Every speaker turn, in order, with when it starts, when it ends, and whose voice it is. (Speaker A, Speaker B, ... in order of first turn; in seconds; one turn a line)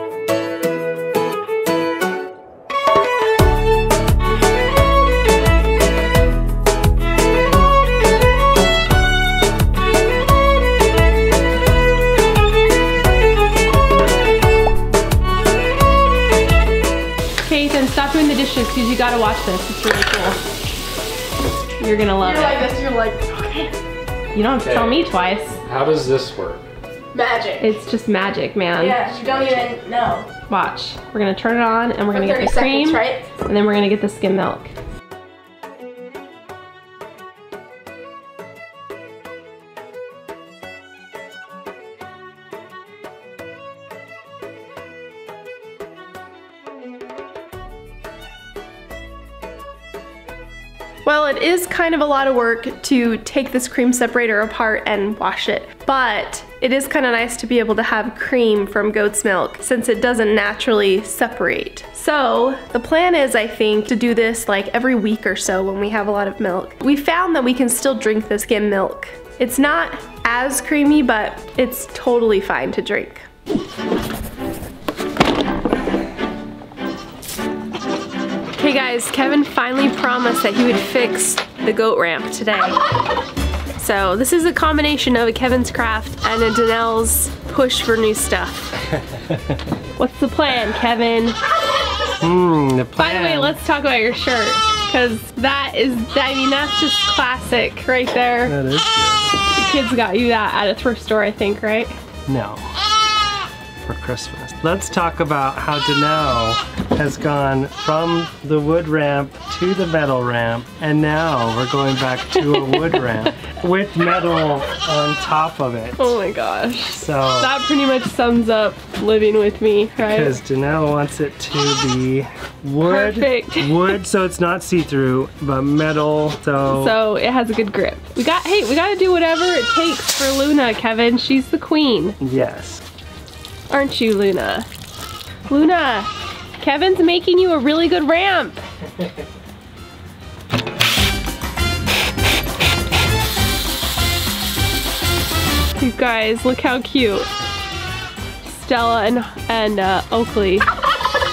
Speaker A: 17.4-20.4
Speaker A: 21.8-22.7
Speaker B: 22.2-23.7
Speaker A: 24.3-25.6
Speaker C: 25.7-26.4
Speaker B: 27.1-27.7
Speaker A: 27.6-29.0
Speaker B: 28.8-30.3
Speaker A: 30.5-34.7
Speaker B: 32.1-33.3
Speaker A: 51.0-73.2
Speaker A: 78.5-82.8
Speaker A: 83.8-88.7
Speaker A: 90.0-91.4
Speaker C: 92.2-93.6
Speaker A: 93.0-98.5
Speaker C: 98.4-99.3
Speaker A: 99.5-102.0
Speaker C: 102.3-102.7
Speaker C: 103.8-116.2
Speaker A: 112.4-113.2
Speaker A: 116.0-120.4
Speaker C: 116.9-117.5
Speaker C: 120.0-127.0
Speaker A: 122.8-124.0
Speaker A: 126.7-132.2
Speaker C: 132.2-132.8
Speaker A: 133.7-134.7
Speaker A: 135.5-138.6
Speaker A: 145.8-147.3
Speaker A: 148.4-150.6